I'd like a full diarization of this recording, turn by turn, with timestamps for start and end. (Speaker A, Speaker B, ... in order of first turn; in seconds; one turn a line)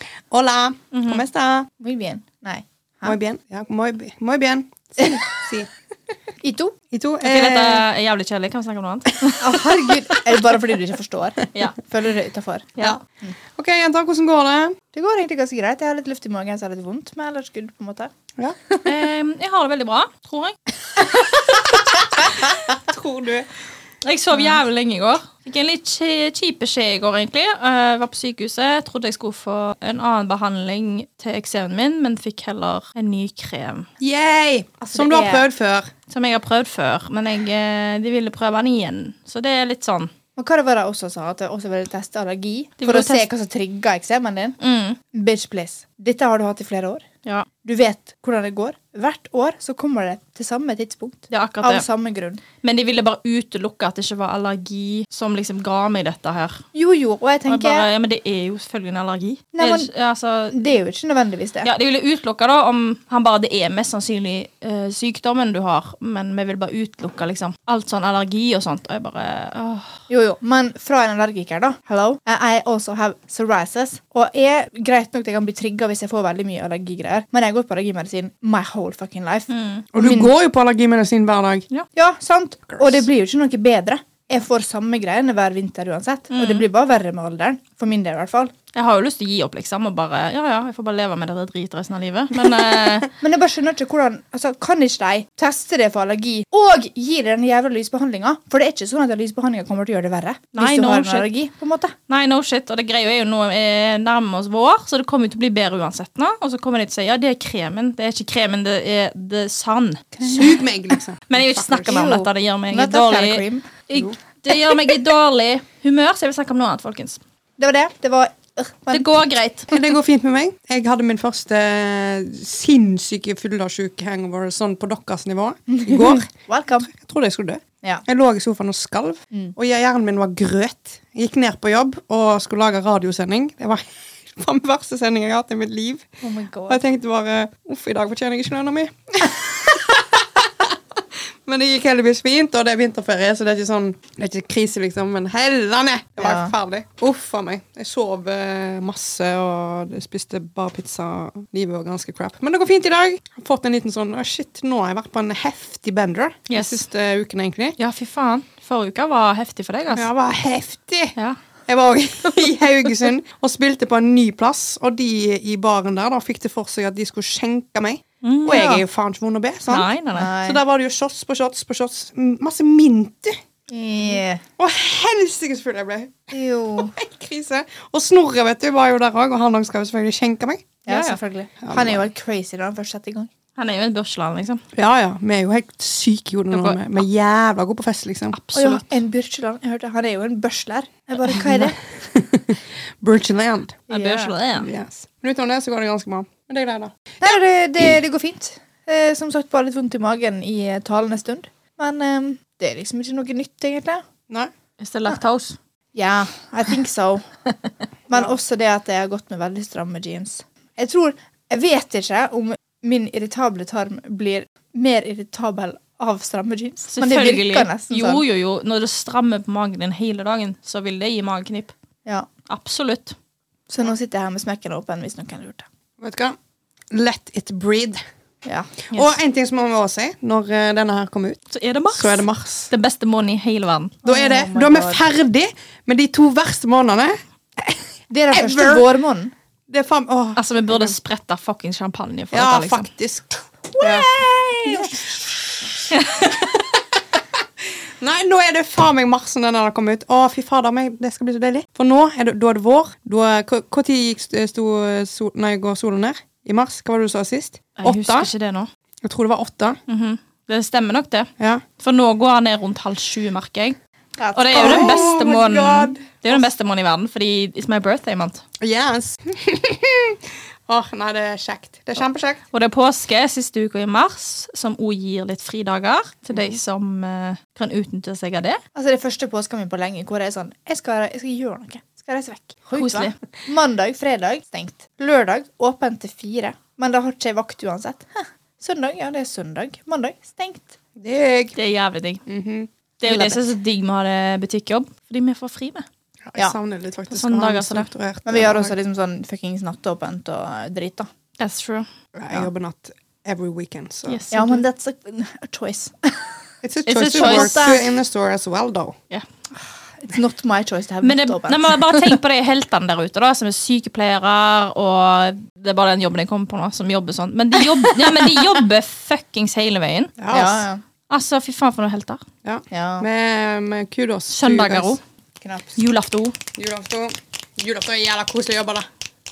Speaker A: 0.3-1.7
Speaker B: 0.9-1.2
Speaker C: 1.8-3.2
Speaker A: 3.0-5.7
Speaker C: 6.4-6.8
Speaker A: 6.9-7.8
Speaker B: 7.2-9.6
Speaker C: 9.4-13.3
Speaker A: 13.6-14.8
Speaker C: 14.9-18.1
Speaker B: 18.8-20.6
Speaker A: 22.7-23.5
Speaker B: 24.0-33.9
Speaker A: 34.0-35.9
Speaker C: 34.8-35.4
Speaker B: 36.1-40.1
Speaker C: 40.4-44.6
Speaker B: 42.8-43.3
Speaker B: 44.6-45.0
Speaker C: 45.1-47.0
Speaker C: 47.6-52.4
Speaker B: 51.3-51.8
Speaker B: 52.6-56.6
Speaker C: 56.7-57.9
Speaker B: 57.5-60.6
Speaker C: 59.5-59.9
Speaker C: 60.5-61.7
Speaker B: 61.6-69.9
Speaker C: 70.1-80.3
Speaker B: 79.5-79.8
Speaker A: 79.9-81.6
Speaker C: 81.9-88.5
Speaker B: 86.3-86.6
Speaker B: 88.7-93.1
Speaker A: 92.3-93.0
Speaker C: 93.2-101.9
Speaker B: 100.5-101.3
Speaker B: 102.1-110.5
Speaker C: 110.2-110.6
Speaker A: 110.2-112.0
Speaker B: 111.3-117.2
Speaker C: 111.9-113.7
Speaker C: 117.6-119.1
Speaker B: 118.9-119.7
Speaker A: 119.7-126.3
Speaker C: 125.7-126.9
Speaker A: 126.8-136.1
Speaker C: 136.2-136.8
Speaker A: 136.7-157.8
Speaker C: 146.2-146.5
Speaker B: 156.5-156.8
Speaker B: 157.8-160.1
Speaker A: 159.9-161.2
Speaker A: 161.7-173.4
Speaker B: 168.2-168.7
Speaker C: 168.4-168.8
Speaker B: 169.7-170.3
Speaker C: 170.1-170.6
Speaker C: 173.7-174.4
Speaker A: 174.6-180.7
Speaker C: 176.3-176.9
Speaker C: 180.8-183.3
Speaker B: 180.9-181.2
Speaker A: 181.6-182.0
Speaker B: 183.6-184.6
Speaker A: 184.7-188.4
Speaker B: 186.5-186.8
Speaker B: 188.3-188.9
Speaker C: 188.5-191.8
Speaker A: 191.2-193.9
Speaker B: 193.9-194.7
Speaker C: 193.9-194.3
Speaker A: 194.5-196.9
Speaker C: 197.2-204.0
Speaker B: 204.8-205.6
Speaker C: 205.9-207.2
Speaker C: 208.1-218.2
Speaker B: 216.9-221.7
Speaker B: 222.5-223.1
Speaker C: 223.7-225.7
Speaker A: 226.0-226.3
Speaker A: 226.9-228.0
Speaker C: 228.4-228.7
Speaker A: 228.9-232.7
Speaker B: 231.5-234.0
Speaker C: 234.0-235.0
Speaker A: 234.0-237.8
Speaker C: 238.1-239.3
Speaker A: 238.3-238.8
Speaker A: 239.7-240.9
Speaker B: 240.3-242.9
Speaker A: 242.3-245.1
Speaker C: 243.8-245.1
Speaker B: 245.9-246.3
Speaker A: 248.0-258.3
Speaker B: 257.8-258.7
Speaker A: 259.0-259.8
Speaker B: 259.9-263.8
Speaker A: 261.4-261.6
Speaker C: 264.2-265.1
Speaker B: 264.3-268.4
Speaker A: 264.5-266.5
Speaker A: 268.6-272.4
Speaker B: 272.5-278.6
Speaker C: 278.7-290.8
Speaker B: 282.7-283.1
Speaker A: 290.9-291.6
Speaker B: 291.6-292.2
Speaker A: 292.3-292.7
Speaker B: 293.0-295.9
Speaker C: 293.0-293.5
Speaker A: 296.3-298.7
Speaker B: 297.1-297.9
Speaker C: 298.2-301.1
Speaker B: 301.4-301.9
Speaker A: 302.1-304.2
Speaker B: 304.1-304.6
Speaker C: 304.3-306.2
Speaker A: 306.6-308.9
Speaker C: 306.9-307.9
Speaker B: 306.9-307.6
Speaker C: 310.0-312.1
Speaker B: 311.0-320.1
Speaker A: 320.2-320.6
Speaker C: 320.3-320.8
Speaker B: 321.1-322.2
Speaker A: 322.4-325.0
Speaker C: 322.7-323.1
Speaker B: 324.3-325.0
Speaker C: 325.4-325.8
Speaker B: 325.8-326.4
Speaker A: 326.5-328.9